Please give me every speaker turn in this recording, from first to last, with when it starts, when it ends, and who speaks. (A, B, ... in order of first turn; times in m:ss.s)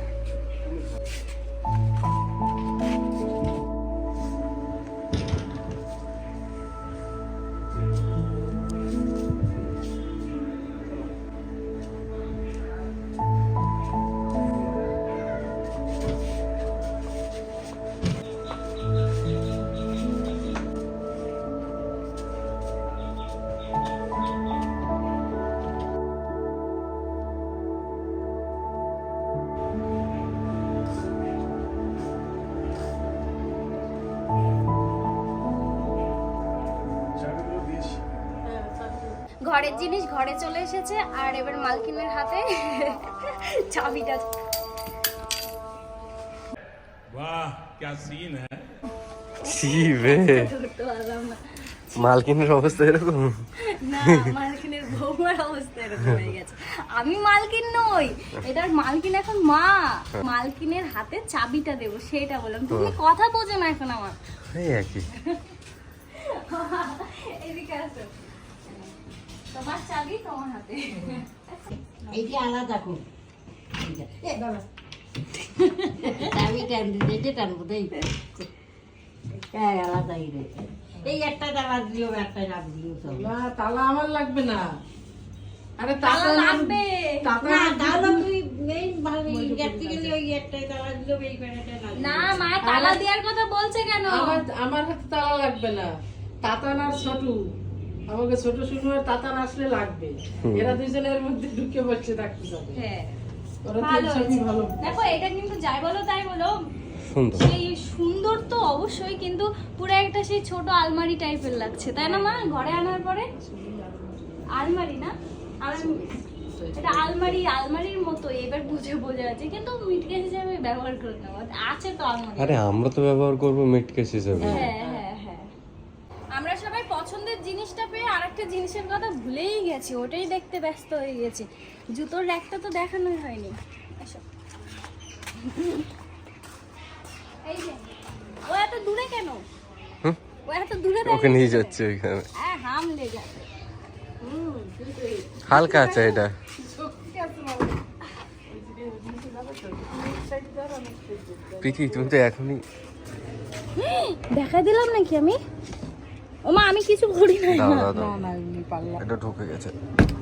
0:37.2-0:38.0 A
0:38.4-0:39.1 B
0:39.4-0:44.3 C
0:39.7-0:40.0 B
0:47.1-0:48.6 A
0:49.4-0:50.5 D
0:49.4-0:52.1 C
0:52.0-0:53.4 D
0:53.8-1:04.2 C
0:54.0-0:54.3 D
1:02.7-1:03.0 D
1:04.5-1:05.1 D
1:05.1-1:05.4 C
1:06.1-1:08.1 C
1:08.7-1:08.9 C
1:09.5-1:11.7 C
1:12.1-1:13.0 E
1:13.8-1:14.4 E
1:14.4-1:14.6 B
1:16.0-1:18.5 E
1:19.4-1:23.3 E
1:23.1-1:24.6 B
1:25.8-1:28.2 B
1:26.0-1:27.2 C
1:27.4-1:32.5 E
1:29.3-1:30.2 B
1:32.0-1:34.4 C
1:32.6-1:33.0 B
1:34.1-1:35.9 B
1:36.4-1:37.3 B
1:38.1-1:42.8 B
1:40.4-1:40.8 D
1:42.7-1:43.2 C
1:43.6-1:45.1 B
1:43.8-1:46.5 C
1:47.0-1:47.5 D
1:47.3-1:53.3 C
1:52.0-1:54.4 B
1:54.5-1:56.1 C
1:55.7-1:57.5 B
1:56.7-2:02.6 C
2:02.4-2:04.7 D
2:04.4-2:05.0 B
2:04.4-2:05.5 C
2:06.3-2:14.2 C
2:15.4-2:15.9 C
2:17.4-2:17.8 C
2:18.4-2:19.4 C
2:20.5-2:21.8 C
2:21.0-2:22.2 D
2:22.4-2:23.4 C
2:24.2-2:27.8 B
2:25.4-2:26.3 D
2:25.6-2:26.2 C
2:28.5-2:32.2 B
2:31.6-2:32.6 D
2:33.8-2:35.4 C
2:36.4-2:37.9 C
2:37.5-2:38.1 D
2:37.9-2:39.0 B
2:39.0-2:39.7 D